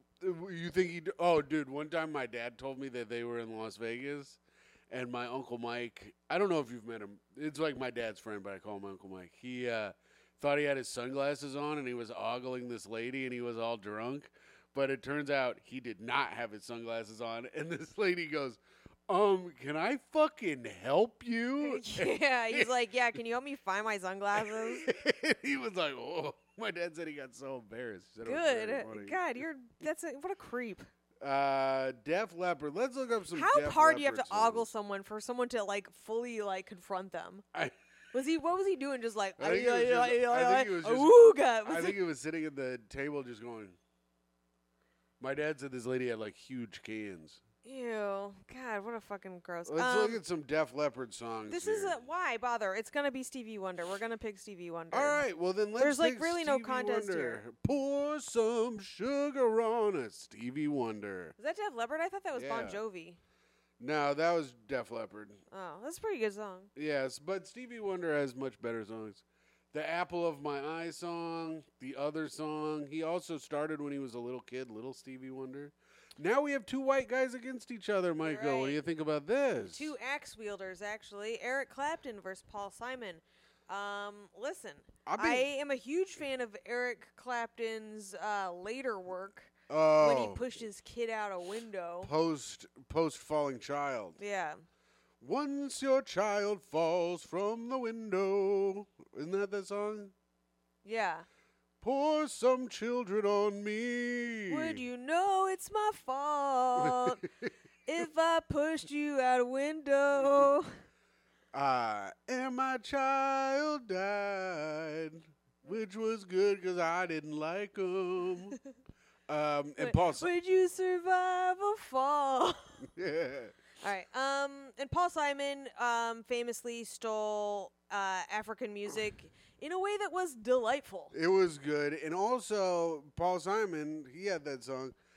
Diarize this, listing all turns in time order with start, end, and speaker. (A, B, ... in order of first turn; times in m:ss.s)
0:00.2-0:22.7 A
0:21.6-0:24.9 B
0:24.5-0:29.2 A
0:28.2-0:30.9 B
0:31.2-0:34.7 A
0:33.3-0:37.4 B
0:38.1-0:42.0 B
0:39.4-0:43.8 A
0:45.2-0:47.4 A
0:47.6-0:50.2 B
0:49.7-0:52.0 A
0:51.5-0:55.2 B
0:54.9-1:01.4 A
0:55.8-0:57.4 B
1:01.4-1:03.2 B
1:02.3-1:02.8 A
1:03.8-1:05.4 A
1:05.5-1:06.7 B
1:06.7-1:19.9 A
1:18.2-1:18.8 B
1:19.6-1:32.1 B
1:25.0-1:25.5 A
1:29.7-1:30.5 A
1:32.0-1:34.2 A
1:34.2-1:34.6 B
1:35.2-1:40.1 A
1:40.8-1:41.2 B
1:41.8-1:44.8 A
1:44.5-1:47.2 B
1:46.8-1:47.5 A
1:47.8-1:50.7 B
1:51.5-1:58.6 A
1:59.3-2:00.3 A
1:59.8-2:02.8 B
2:02.8-2:03.6 A
2:03.8-2:11.1 B
2:11.1-2:14.9 A